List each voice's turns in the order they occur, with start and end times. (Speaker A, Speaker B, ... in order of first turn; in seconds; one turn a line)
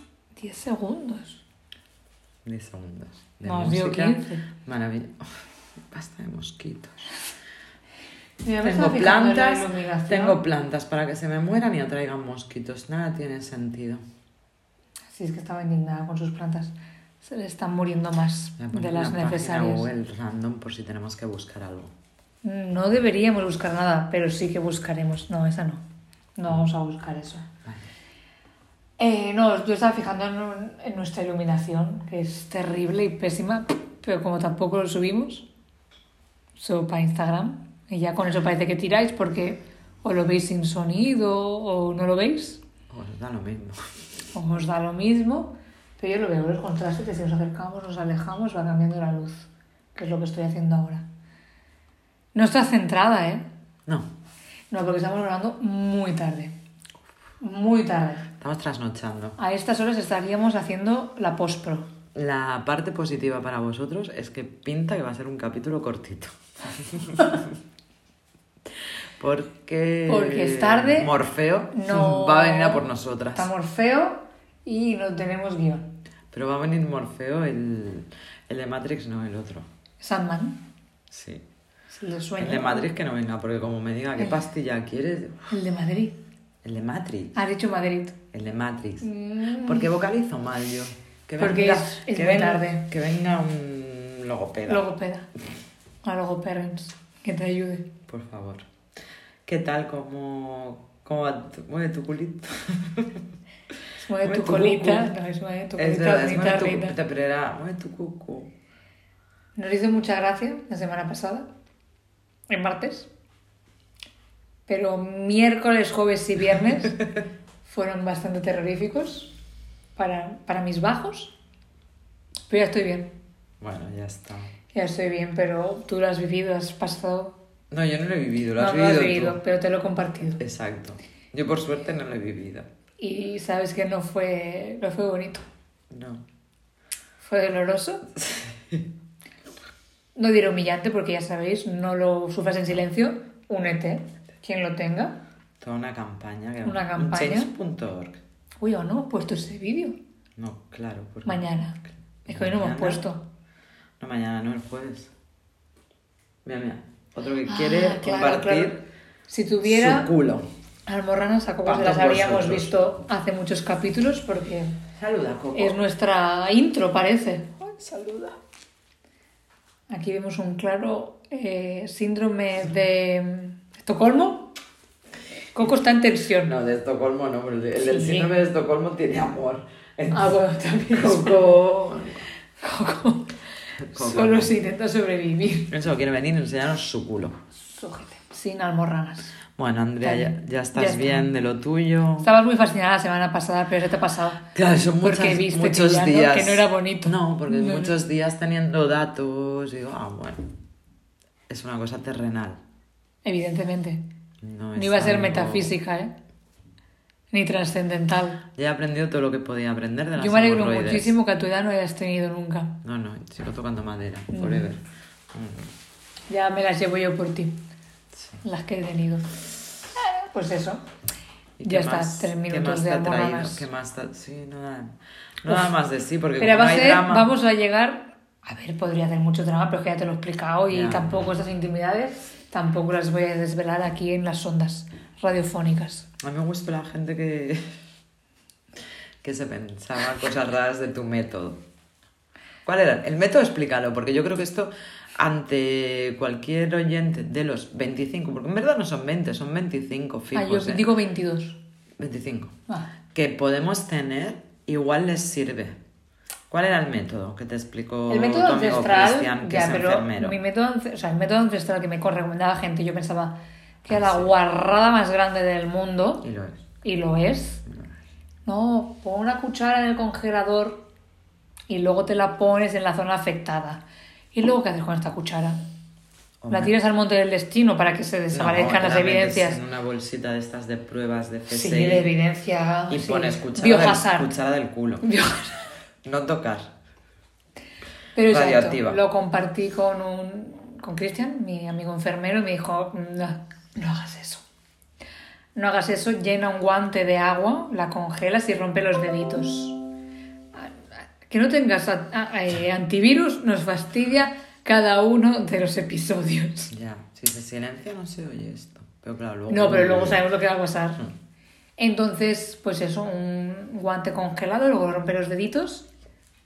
Speaker A: 0.4-1.4
Speaker B: 2.4-5.3
Speaker A: 3.4-4.4
Speaker B: 5.9-7.0
Speaker A: 8.4-10.4
Speaker B: 8.6-14.0
Speaker A: 15.1-19.9
Speaker B: 18.6-21.9
Speaker A: 22.4-25.8
Speaker A: 26.4-27.5
Speaker A: 29.0-35.5
Speaker A: 36.6-42.6
Speaker B: 42.9-43.8
Speaker A: 44.3-51.0
Speaker A: 52.3-53.4
Speaker A: 54.7-56.5
Speaker A: 57.4-58.3
Speaker B: 58.4-59.4
Speaker A: 59.4-61.9
Speaker B: 62.1-67.5
Speaker B: 69.2-73.5
Speaker A: 70.1-71.1
Speaker A: 71.7-75.9
Speaker B: 76.3-79.7
Speaker A: 80.0-80.6
Speaker B: 81.1-81.4
Speaker A: 81.9-82.9
Speaker B: 82.4-85.5
Speaker A: 85.5-86.2
Speaker B: 86.6-87.4
Speaker A: 87.3-88.2
Speaker B: 88.3-94.8
Speaker A: 89.0-89.9
Speaker A: 91.4-92.9
Speaker A: 94.7-95.3
Speaker A: 96.0-97.9
Speaker B: 98.1-98.7
Speaker B: 99.5-103.2
Speaker A: 104.0-106.9
Speaker B: 104.2-105.1
Speaker B: 105.8-108.5
Speaker A: 109.5-111.5
Speaker A: 112.5-113.1
Speaker A: 114.7-117.0
Speaker A: 117.6-119.3
Speaker A: 120.0-121.3
Speaker A: 122.5-123.1
Speaker B: 123.6-124.5
Speaker A: 124.7-127.4
Speaker B: 127.7-129.4
Speaker A: 128.6-130.4
Speaker B: 130.4-132.7
Speaker A: 133.0-135.4
Speaker B: 135.9-136.2
Speaker A: 137.2-138.1
Speaker B: 138.2-138.9
Speaker A: 140.2-145.2
Speaker B: 145.6-148.2
Speaker A: 146.6-147.5
Speaker A: 148.6-150.0
Speaker B: 150.4-151.4
Speaker A: 151.2-153.2
Speaker B: 152.2-153.0
Speaker B: 154.0-155.1
Speaker B: 156.4-158.8
Speaker A: 157.4-160.1
Speaker B: 159.6-160.4
Speaker A: 160.9-164.7
Speaker B: 161.7-162.7
Speaker B: 165.0-165.8
Speaker A: 165.5-168.3
Speaker A: 169.9-174.5
Speaker A: 175.5-176.5
Speaker B: 176.4-182.2
Speaker A: 177.8-178.3
Speaker A: 180.1-181.4
Speaker A: 182.6-183.3
Speaker B: 183.8-184.5
Speaker A: 183.9-185.7
Speaker B: 185.7-187.3
Speaker A: 187.6-189.3
Speaker B: 189.6-192.3
Speaker A: 190.0-191.3
Speaker A: 192.2-194.4
Speaker B: 194.5-200.5
Speaker A: 195.0-197.9
Speaker B: 201.5-202.6
Speaker A: 203.2-204.0
Speaker B: 204.4-205.7
Speaker A: 204.7-206.1
Speaker A: 207.3-208.4
Speaker B: 208.5-211.1
Speaker A: 210.2-212.8
Speaker B: 212.8-215.7
Speaker A: 214.3-214.7
Speaker A: 216.3-217.6
Speaker B: 218.1-218.4
Speaker A: 218.4-219.3
Speaker A: 219.9-220.8
Speaker B: 221.6-227.3
Speaker A: 221.6-223.6
Speaker A: 226.4-236.1
Speaker B: 230.7-231.3
Speaker B: 236.2-237.6
Speaker B: 239.2-241.6
Speaker B: 242.6-250.8
Speaker A: 250.3-251.6
Speaker B: 252.0-252.5
Speaker B: 253.1-255.8
Speaker B: 256.5-260.4
Speaker A: 258.1-266.2
Speaker B: 263.9-264.3
Speaker B: 266.2-266.6
Speaker A: 266.8-267.6
Speaker B: 267.6-267.9
Speaker A: 268.4-270.9
Speaker A: 271.7-273.8
Speaker A: 274.3-275.6
Speaker B: 276.4-276.7
Speaker A: 276.5-279.6
Speaker B: 278.3-282.1
Speaker A: 281.5-284.3
Speaker B: 282.9-285.0
Speaker A: 285.0-285.6
Speaker B: 286.0-286.7
Speaker A: 288.1-294.4
Speaker B: 288.3-289.0
Speaker A: 295.5-299.8
Speaker A: 300.5-306.7
Speaker B: 306.7-310.2
Speaker A: 309.5-311.0
Speaker A: 311.8-315.9